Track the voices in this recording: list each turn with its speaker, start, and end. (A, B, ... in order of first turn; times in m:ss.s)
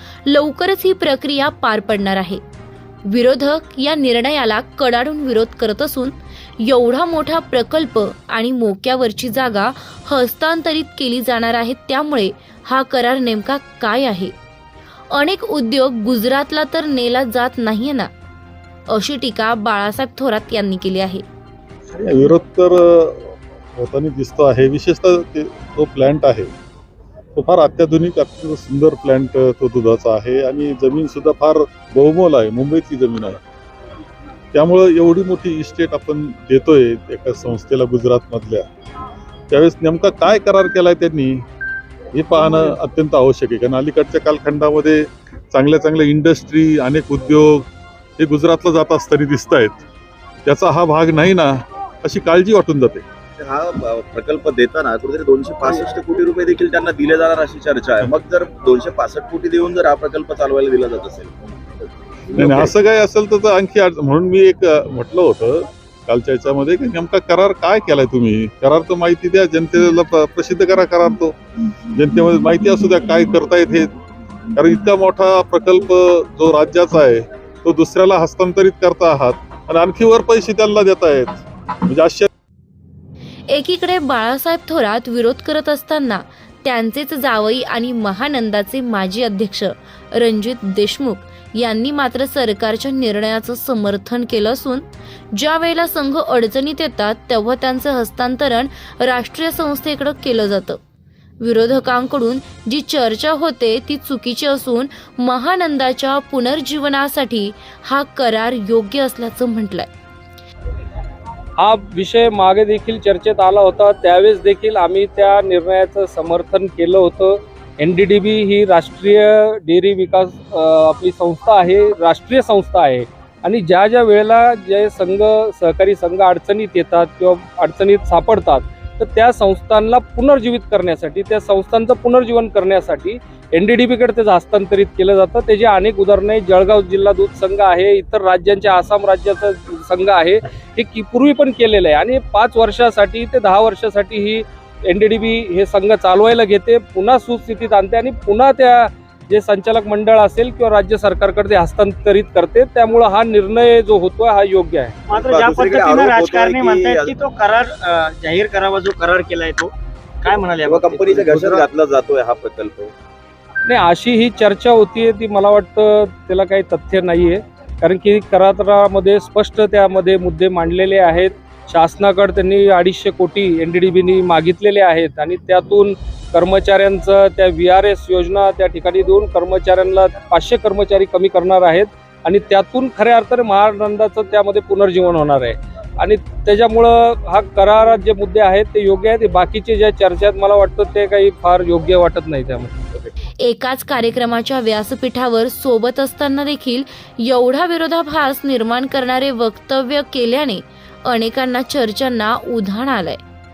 0:00.2-0:02.4 A
0:03.1-0:14.3 A
0:15.1-0:18.1 A
0:18.9-0:21.2 A
0:21.9-0:26.5 B
0:27.3-0:33.4 B
0:34.5-0:38.7 B
0:39.5-0:41.4 B
0:42.1-0:49.8 B
0:50.4-0:53.0 B
0:53.4-1:01.3 C
1:02.3-1:02.7 C
1:02.4-1:11.4 B
1:11.9-1:13.9 B
1:14.5-1:22.3 B
1:23.5-1:40.8 A
1:41.4-1:49.9 A
1:51.6-2:35.0 D
2:35.1-2:37.1 C
2:35.1-2:41.6 E
2:40.6-2:42.9 C
2:43.6-3:13.1 D
3:13.4-3:23.2 A